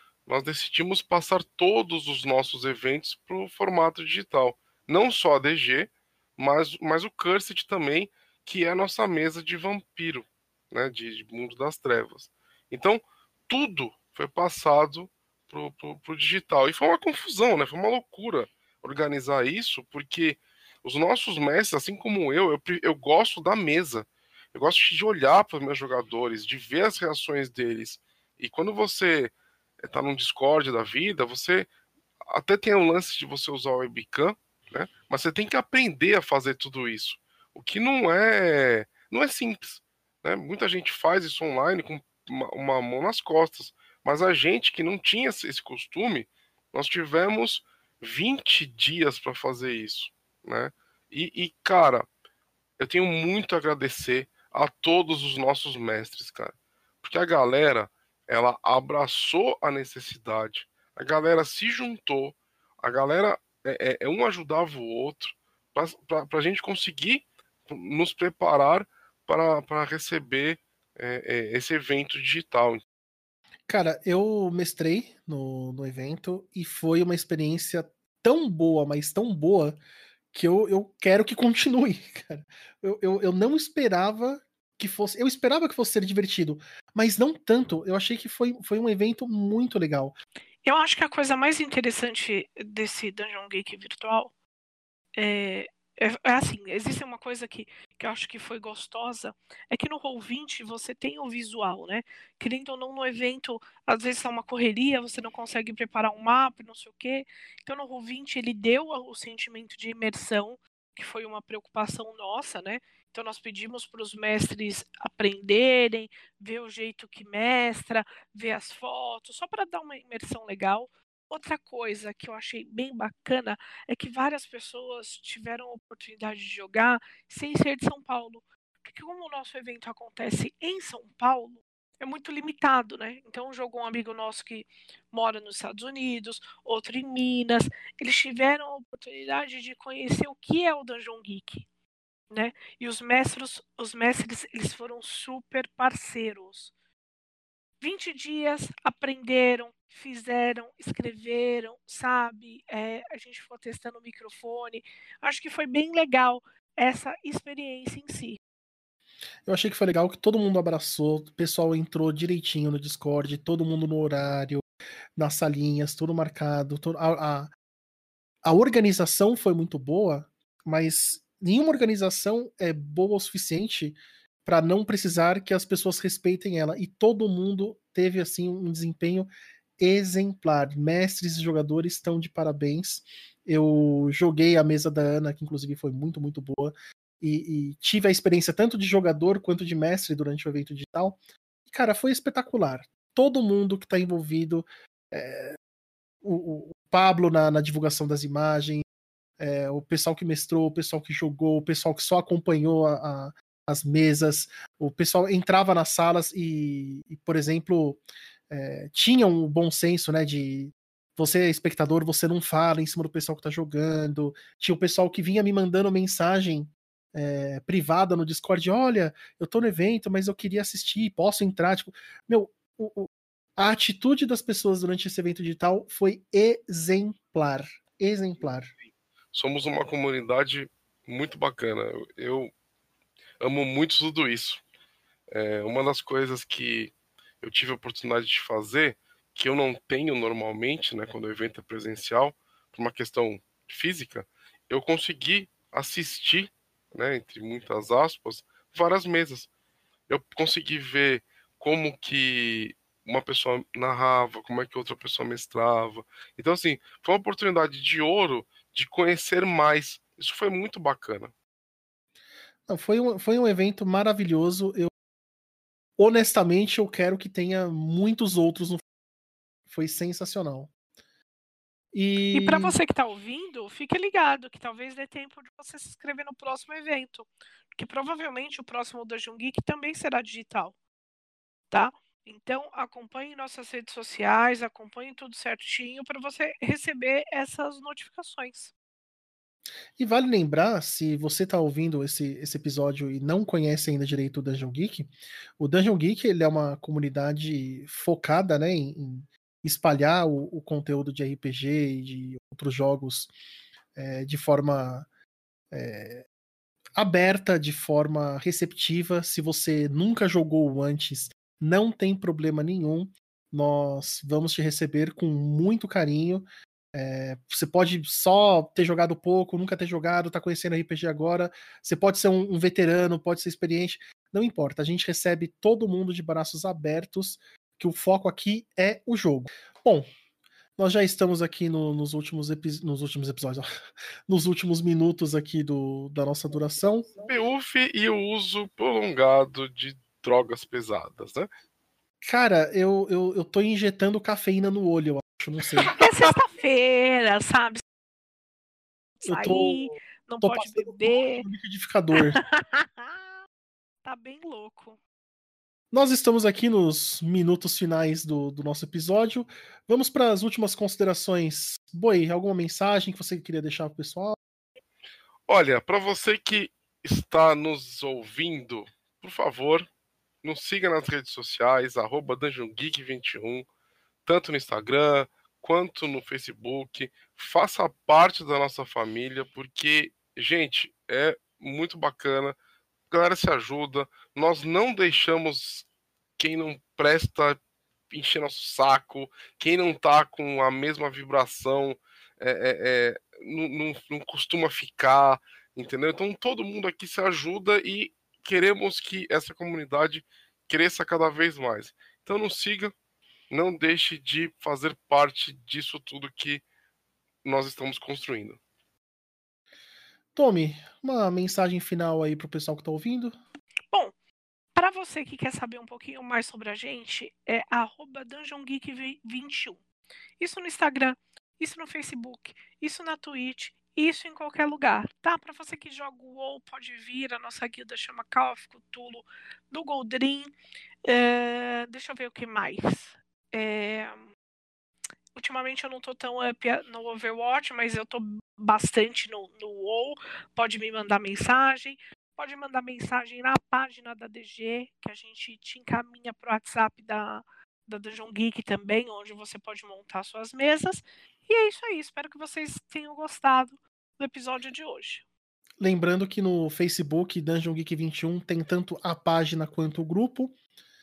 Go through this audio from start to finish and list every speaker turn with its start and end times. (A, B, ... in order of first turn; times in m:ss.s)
0:00.3-0:31.7 A
0:32.3-0:52.1 A
0:52.8-1:12.8 A
1:13.7-1:19.8 B
1:20.3-1:30.2 B
1:30.6-1:34.3 C
1:35.2-2:21.7 C
2:22.3-2:26.7 C
2:27.8-2:38.4 C
2:39.5-2:44.6 B
2:45.2-2:47.5 B
2:48.4-3:15.6 B
3:16.2-3:18.8 B
3:19.4-3:48.7 B
3:49.3-3:52.5 A
3:53.4-3:54.6 A
3:55.3-4:09.5 A
4:10.1-4:21.3 A
4:22.7-4:24.9 B
4:26.0-4:28.8 B
4:29.7-4:30.7 B
4:31.9-4:32.8 B
4:32.3-4:40.8 C
4:41.7-4:48.7 C
4:50.0-5:03.3 B
5:04.0-5:05.1 B
5:05.7-5:06.3 B
5:07.0-5:30.1 B
5:30.8-5:33.7 B
5:34.3-5:37.1 B
5:37.2-5:41.5 A
5:42.2-5:46.0 B
5:46.0-5:47.8 C
5:49.2-5:51.5 C
5:49.3-5:52.4 B
5:52.2-5:53.2 C
5:54.0-5:55.0 C
5:55.9-6:04.4 B
6:05.5-6:09.9 A
6:10.4-6:13.7 A
6:14.2-6:22.6 A
6:23.1-6:25.9 A
6:26.4-6:42.9 A
6:43.5-6:46.6 A
6:47.4-6:48.6 A
6:50.4-6:53.4 B
6:54.8-6:59.8 C
7:00.4-7:10.5 C
7:11.0-7:14.3 C
7:15.4-7:35.2 C
7:35.8-7:40.6 B